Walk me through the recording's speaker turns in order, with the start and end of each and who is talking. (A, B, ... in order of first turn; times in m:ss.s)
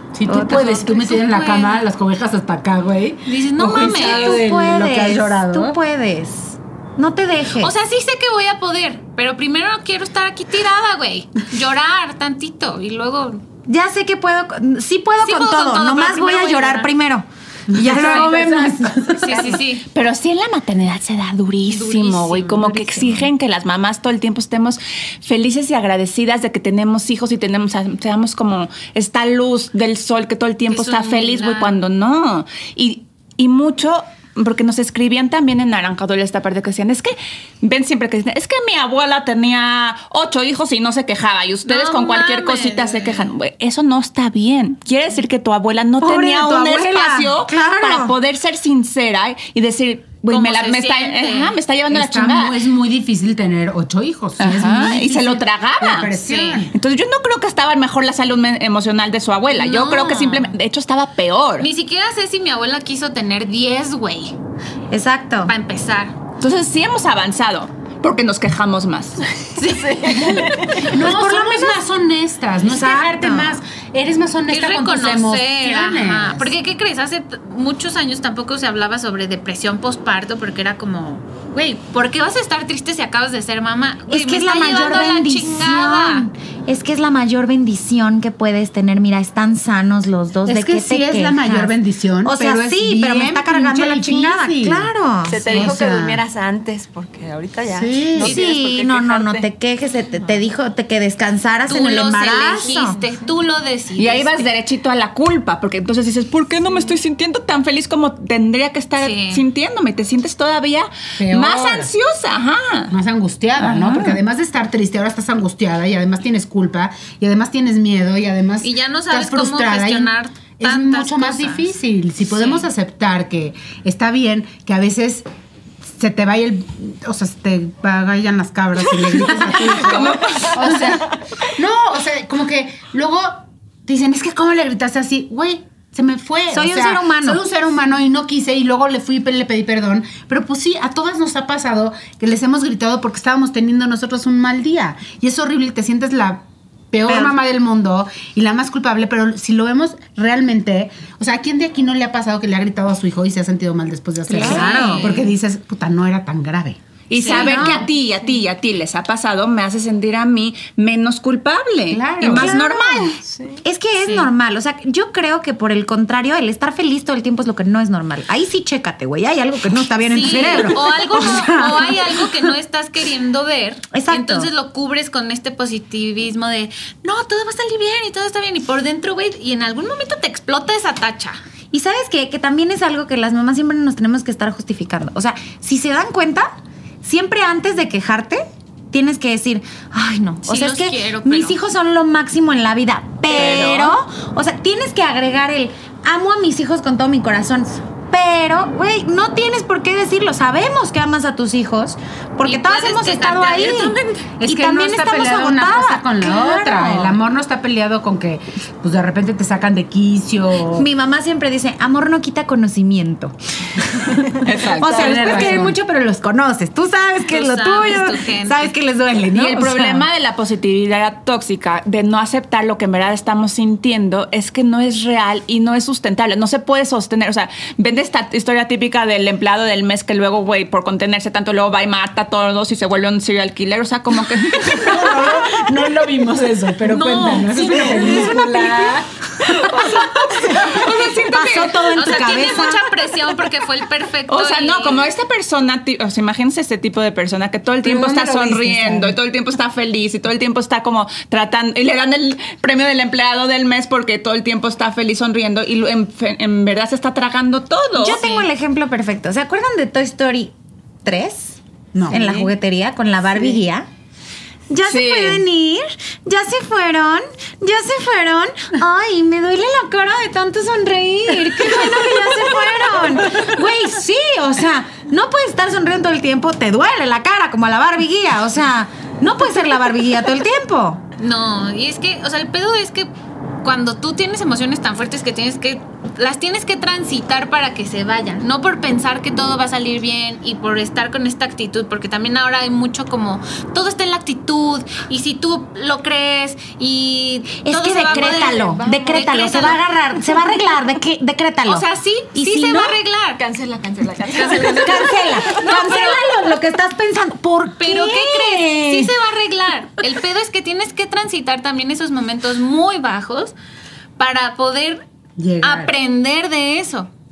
0:00.1-0:05.8 A
0:00.3-0:00.9 B
0:00.4-0:01.8 C
0:03.2-0:04.4 C
0:03.7-0:07.7 B
0:07.6-0:13.4 C
0:13.6-0:19.2 B
0:15.2-0:16.9 C
0:17.7-0:19.5 A
0:19.1-0:19.8 C
0:19.8-0:52.6 D
0:21.7-0:23.2 C
0:30.7-0:31.8 C
0:41.6-0:43.3 C
0:46.0-0:48.1 B
0:50.3-0:51.6 C
0:51.9-0:56.7 A
0:54.4-0:56.1 D
0:56.2-0:56.6 C
0:56.7-1:01.7 D
0:59.5-1:00.5 C
1:01.6-1:04.3 C
1:04.9-1:05.5 B
1:05.4-1:06.2 C
1:06.4-1:09.3 D
1:09.6-1:10.9 E
1:10.8-1:16.5 A
1:10.9-1:11.8 B
1:12.6-1:13.6 B
1:14.5-1:26.3 C
1:24.1-1:35.7 B
1:30.4-1:34.9 A
1:35.3-1:39.5 E
1:35.4-1:36.2 A
1:37.7-1:38.4 A
1:38.2-1:43.0 B
1:41.7-1:44.4 C
1:44.0-1:52.9 D
1:49.0-1:49.4 C
1:51.2-1:51.9 A
1:52.9-2:05.2 A
1:53.6-1:54.2 D
1:58.6-2:01.7 C
2:02.3-2:02.7 C
2:05.9-2:36.8 A
2:09.2-2:10.8 D
2:16.5-2:17.4 B
2:27.0-2:27.4 B
2:34.3-2:35.2 B
2:34.4-2:35.3 C
2:37.1-2:43.2 D
2:37.1-2:37.8 C
2:37.2-2:37.9 B
2:41.9-2:42.6 A
2:42.2-2:52.3 B
2:43.3-2:43.6 E
2:44.0-2:44.3 C
2:50.1-3:01.4 C
2:53.9-2:54.5 B
3:01.7-3:06.5 B
3:07.0-3:27.2 B
3:10.4-3:11.6 C
3:13.3-3:14.0 D
3:22.4-3:24.3 C
3:24.4-3:30.9 A
3:30.7-3:40.1 B
3:34.4-3:35.6 D
3:34.8-3:35.8 A
3:37.3-3:38.7 C
3:39.3-3:55.3 D
3:54.6-3:59.1 A
3:57.0-3:58.3 C
3:59.4-4:01.9 D
4:01.2-4:02.9 B
4:01.9-4:05.1 C
4:04.3-4:18.2 D
4:07.8-4:09.2 A
4:18.0-4:23.9 B
4:18.2-4:18.4 C
4:21.9-4:22.4 A
4:24.7-4:41.0 B
4:24.8-4:25.4 D
4:41.2-4:43.1 C
4:43.6-4:59.8 C
4:57.6-5:03.0 B
4:58.1-4:59.6 E
5:01.6-5:03.4 C
5:03.4-5:05.5 E
5:04.3-5:06.4 C
5:04.6-5:09.1 B
5:07.8-5:13.5 C
5:14.2-5:15.0 C
5:15.4-5:16.0 A
5:15.6-5:17.1 C